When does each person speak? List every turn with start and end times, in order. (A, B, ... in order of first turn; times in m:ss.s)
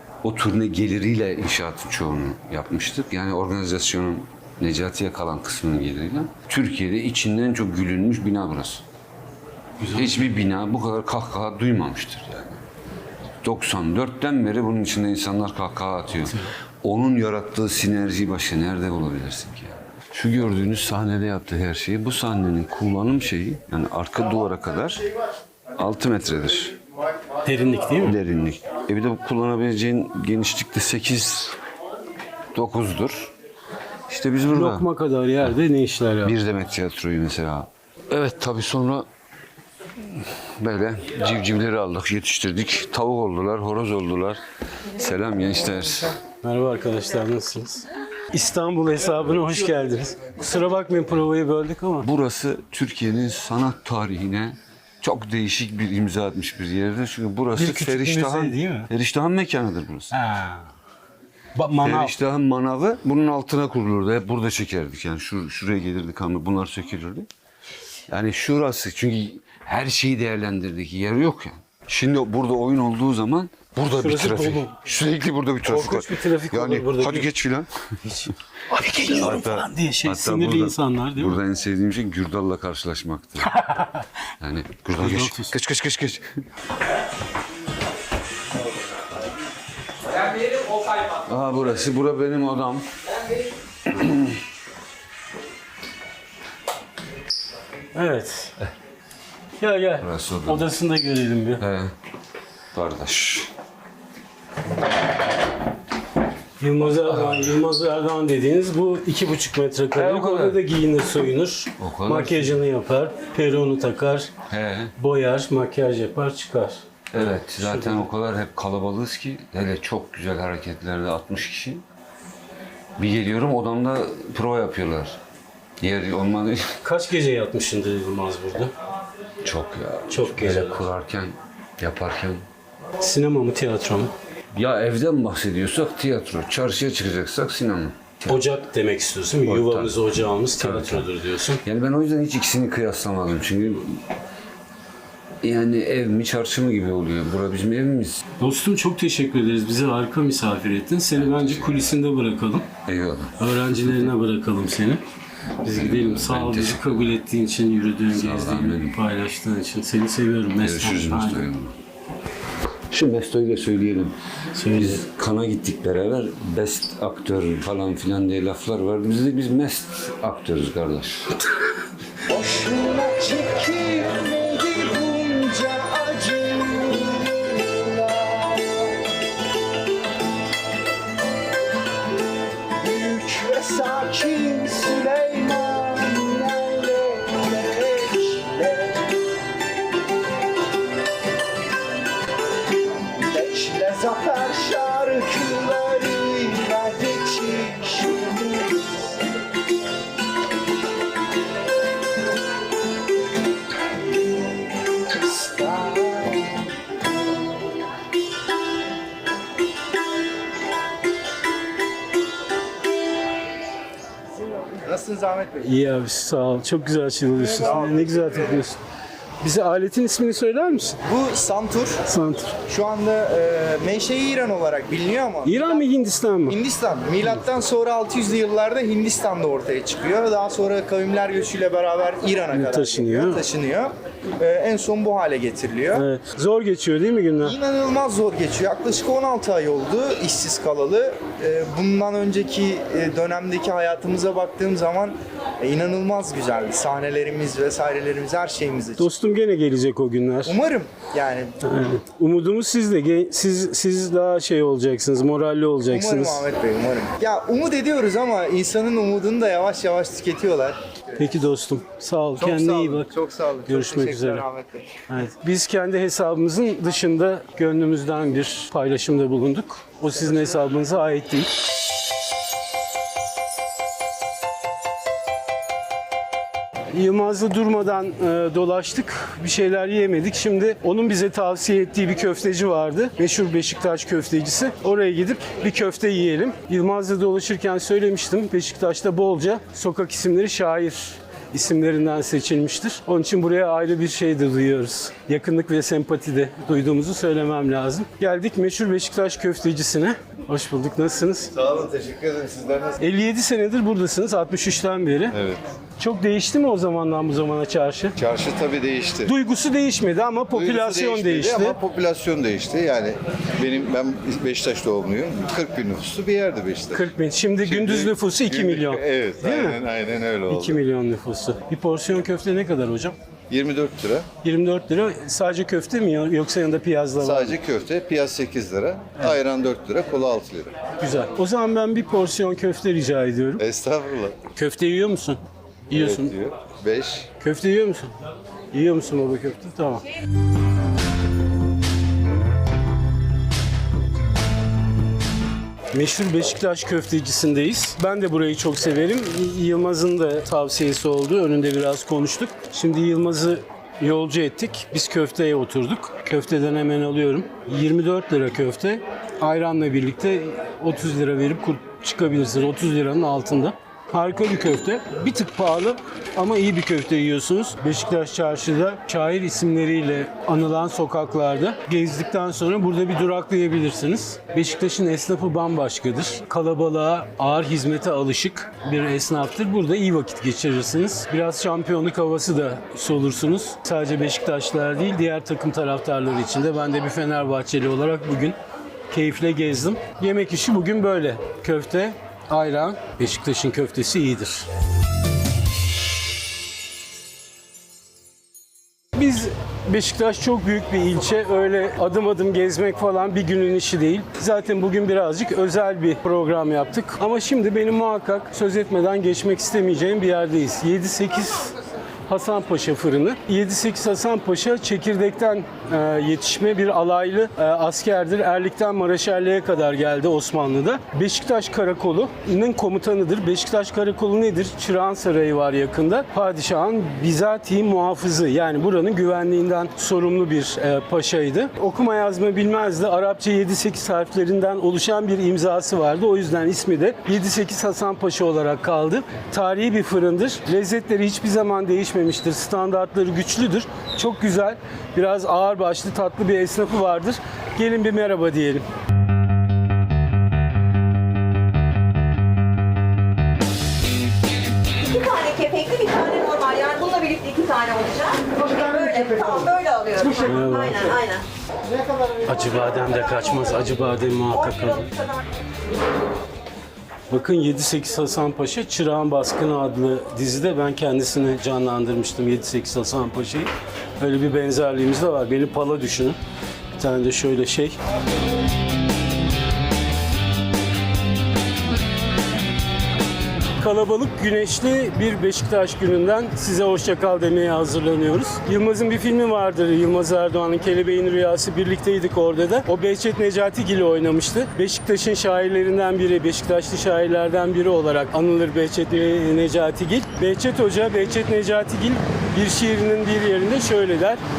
0:00.2-0:08.8 A
0:09.8-0:10.2 B
0:09.9-0:12.6 A
0:13.4-0:25.0 A
0:16.2-0:16.5 B
0:25.8-0:26.8 A
0:27.4-0:28.2 B
0:28.0-0:31.6 A
0:32.5-0:33.3 A
0:34.1-0:34.9 A
0:34.5-0:36.4 B
0:36.2-0:39.1 A
0:40.0-0:46.2 A
0:46.4-0:52.1 B
0:52.0-1:00.2 A
0:57.6-0:58.9 B
1:00.1-1:00.7 B
1:01.6-1:02.1 B
1:01.8-1:07.3 A
1:08.1-1:18.0 A
1:13.9-1:14.7 B
1:15.6-1:17.3 B
1:18.0-1:21.4 B
1:19.0-1:23.6 A
1:23.6-1:24.0 B
1:24.4-1:26.4 A
1:25.0-1:25.5 B
1:30.8-1:32.9 A
1:33.9-1:34.4 A
1:37.9-1:38.6 B
1:39.6-1:41.6 B
1:40.0-1:40.7 A
1:41.6-1:41.9 A
1:42.7-1:43.5 A
1:46.6-1:54.3 B
1:47.0-1:47.5 A
1:49.9-1:50.6 A
1:51.8-1:52.6 A
1:54.5-1:54.9 A
1:55.0-1:58.0 B
1:57.1-2:01.8 A
2:03.0-2:05.2 A
2:05.8-2:06.7 A
2:06.8-2:08.7 B
2:09.4-2:12.4 A
2:10.1-2:10.8 B
2:13.0-2:14.1 B
2:14.5-2:18.4 A
2:18.3-2:21.6 B
2:19.4-2:21.1 A
2:21.6-2:24.0 A
2:25.4-2:28.2 A
2:28.4-2:32.7 B
2:31.2-2:31.8 A
2:32.8-2:34.1 A
2:33.4-2:35.0 B
2:35.6-2:41.5 B
2:35.6-2:37.1 A
2:38.1-2:39.0 A
2:40.5-2:41.7 A
2:42.9-2:51.4 A
2:44.5-2:45.0 B
2:52.3-2:58.9 C
3:02.8-3:09.1 C
3:13.2-3:18.9 C
3:25.0-3:26.6 C
3:34.7-3:35.6 C
3:35.6-3:38.8 B
3:37.4-3:38.6 C
3:39.4-3:41.0 B
3:41.1-3:42.0 C
3:42.0-3:42.6 B
3:42.7-3:45.8 C
3:45.4-3:46.6 B
3:46.5-3:56.1 C
3:52.5-3:53.4 B
3:55.9-3:57.6 B
3:57.4-4:09.0 C
4:09.0-4:10.6 B
4:10.4-4:11.6 C
4:11.6-4:16.4 B
4:15.9-4:20.8 C
4:21.2-4:23.1 B
4:22.4-4:25.0 C
4:23.7-4:24.4 B
4:25.1-4:31.5 B
4:36.9-5:01.5 B
5:01.5-5:02.9 D
5:03.0-5:05.4 B
5:05.3-5:05.6 D
5:06.0-5:08.2 B
5:08.2-5:09.3 D
5:09.2-5:11.8 B
5:10.5-5:17.1 D
5:16.9-5:19.8 B
5:17.6-5:20.8 D
5:20.5-5:23.2 B
5:23.5-5:24.3 D
5:24.4-5:27.6 B
5:27.2-5:30.7 D
5:31.0-5:33.6 B
5:33.6-5:34.4 D
5:34.5-5:36.3 B
5:35.9-5:37.3 D
5:37.4-5:38.1 B
5:38.7-5:40.0 B
5:45.9-6:28.6 B
6:29.1-6:34.7 B
6:39.2-6:51.7 B
6:52.3-7:28.8 B
7:35.0-7:41.4 E
7:40.4-7:41.1 B
7:42.4-7:45.1 B
7:44.5-7:45.4 E
7:47.3-7:56.4 B
7:56.9-7:58.0 B
8:03.8-8:24.4 B